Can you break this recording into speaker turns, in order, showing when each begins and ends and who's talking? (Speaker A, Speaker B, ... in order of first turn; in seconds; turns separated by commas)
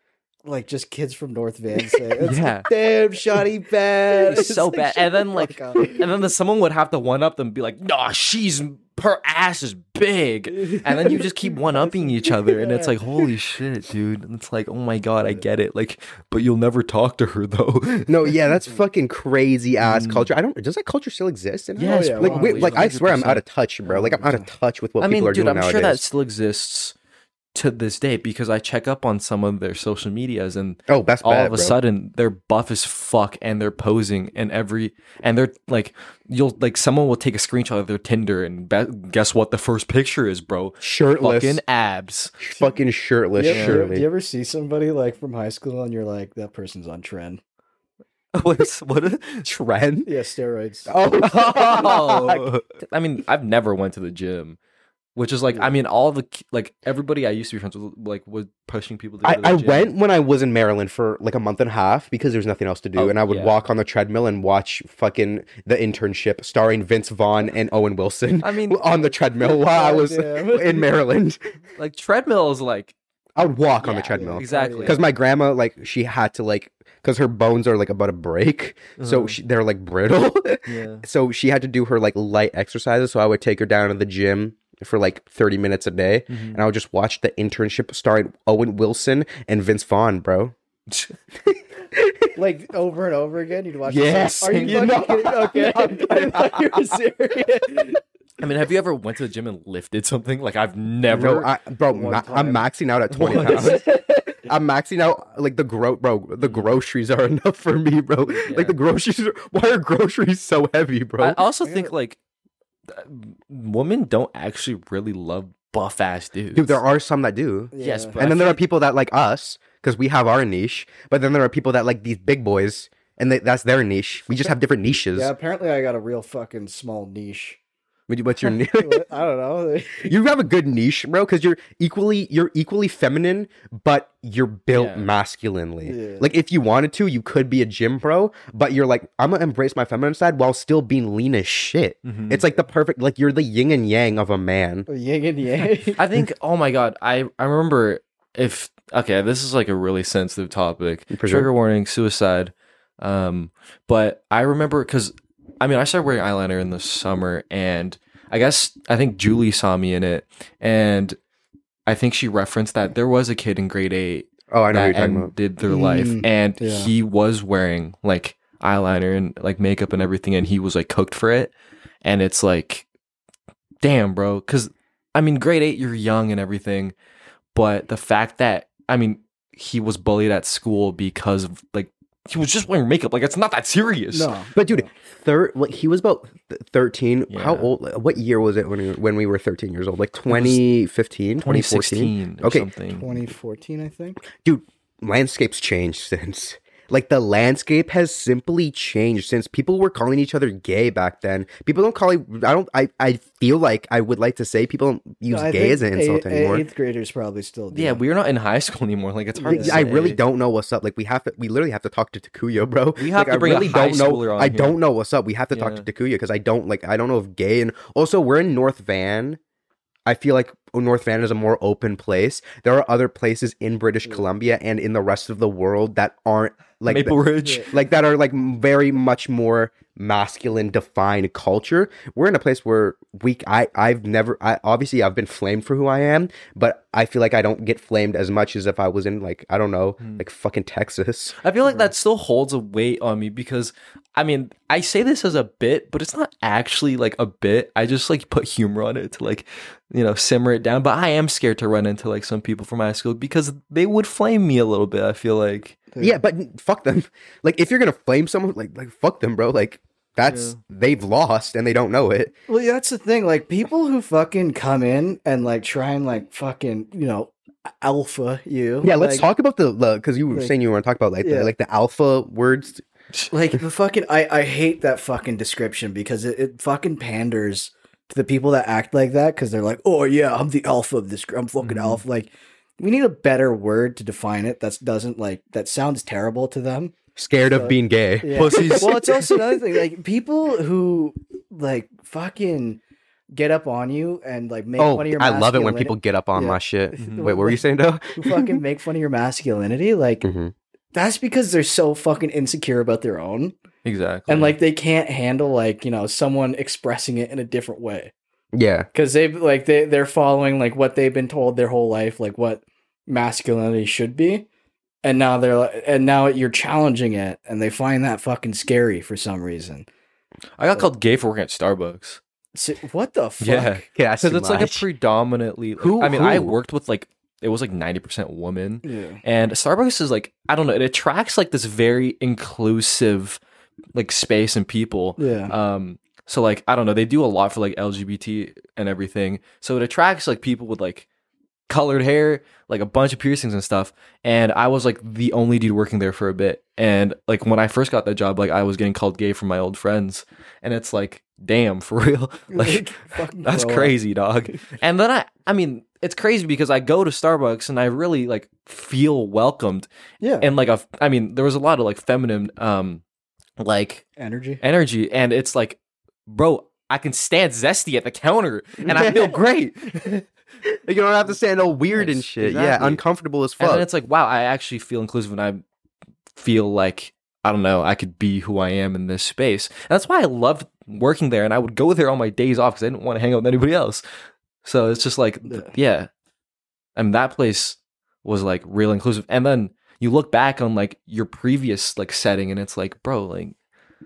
Speaker A: 0.4-6.0, Speaker B: 2.2-2.7, Speaker B: 4.1-18.1, Speaker A: 10.6-12.9, Speaker C: 18.1-26.0, Speaker B: 19.8-20.3, Speaker B: 21.8-23.4, Speaker A: 21.8-22.9, Speaker A: 23.9-24.5, Speaker B: 25.0-26.9, Speaker B: 27.5-42.5, Speaker C: 30.9-31.8, Speaker C: 40.8-41.6, Speaker C: 42.4-44.0, Speaker A: 43.4-47.4, Speaker B: 43.5-43.9, Speaker B: 48.3-49.5, Speaker C: 49.4-50.1, Speaker A: 50.0-50.9, Speaker C: 50.9-52.5, Speaker B: 51.2-54.6, Speaker B: 55.1-59.9, Speaker C: 59.2-71.4, Speaker B: 63.0-63.5, Speaker B: 68.4-68.9, Speaker A: 69.4-70.9, Speaker B: 71.8-72.9, Speaker C: 73.4-90.5, Speaker B: 73.8-75.0, Speaker A: 74.1-75.0, Speaker B: 79.0-79.4, Speaker B: 80.7-81.0, Speaker B: 86.3-86.6, Speaker C: 91.4-92.3, Speaker A: 92.4-98.0, Speaker C: 93.9-96.9, Speaker B: 94.3-95.0, Speaker B: 98.4-101.5, Speaker C: 101.1-103.8, Speaker A: 101.9-102.6, Speaker B: 103.1-104.0, Speaker C: 104.4-111.4, Speaker B: 106.4-106.7, Speaker B: 108.5-108.8, Speaker B: 111.2-112.2, Speaker A: 111.6-111.9, Speaker B: 112.9-116.8, Speaker C: 116.5-125.3, Speaker A: 117.7-118.1, Speaker B: 117.8-118.6, Speaker A: 125.1-127.6, Speaker C: 128.1-129.1, Speaker A: 128.6-130.1, Speaker C: 130.0-144.9, Speaker B: 134.7-135.1, Speaker A: 135.8-136.3, Speaker B: 142.1-142.4, Speaker A: 144.9-146.0, Speaker B: 146.0-161.2, Speaker C: 151.1-151.5, Speaker B: 161.9-171.5, Speaker C: 164.5-165.3, Speaker A: 165.7-166.9, Speaker B: 172.0-172.8, Speaker B: 173.8-176.9, Speaker B: 177.5-184.4, Speaker A: 184.1-184.9, Speaker C: 184.6-192.7, Speaker B: 187.3-187.7, Speaker B: 190.3-190.6, Speaker B: 191.4-193.3, Speaker A: 192.9-194.2, Speaker C: 194.4-206.7, Speaker A: 205.3-208.0, Speaker B: 207.7-210.2, Speaker A: 209.4-209.8, Speaker C: 209.5-219.4, Speaker B: 213.0-214.8, Speaker B: 215.5-215.8, Speaker C: 220.1-241.4, Speaker B: 226.9-227.7, Speaker B: 241.4-255.8, Speaker A: 255.9-256.2, Speaker C: 256.0-262.3, Speaker B: 260.3-260.6, Speaker A: 262.5-269.3, Speaker C: 268.8-272.8, Speaker A: 271.2-271.5, Speaker B: 273.1-273.6, Speaker A: 273.5-286.9, Speaker B: 281.6-282.0, Speaker C: 287.1-288.9, Speaker A: 287.5-292.8, Speaker B: 288.3-289.4, Speaker A: 293.3-300.3, Speaker C: 294.8-298.6, Speaker B: 297.0-297.4, Speaker C: 300.2-300.5, Speaker A: 300.9-303.6, Speaker B: 303.8-304.6, Speaker A: 304.3-308.1, Speaker C: 308.5-308.9, Speaker A: 308.9-314.5, Speaker A: 315.0-319.9, Speaker B: 320.6-322.2, Speaker A: 322.6-323.8, Speaker B: 323.4-333.4, Speaker C: 323.9-324.9, Speaker C: 325.8-326.6, Speaker A: 328.8-329.2, Speaker B: 333.9-341.1, Speaker A: 335.2-335.5, Speaker B: 341.7-359.9, Speaker A: 352.5-353.9, Speaker A: 360.2-360.5, Speaker B: 360.4-363.0, Speaker B: 363.6-364.1, Speaker A: 364.2-364.6, Speaker B: 364.6-370.3, Speaker C: 368.9-369.4, Speaker C: 370.7-373.9, Speaker B: 371.9-373.0, Speaker B: 373.6-375.6, Speaker B: 376.4-384.0, Speaker B: 384.6-386.1, Speaker A: 385.5-385.7, Speaker B: 386.9-393.6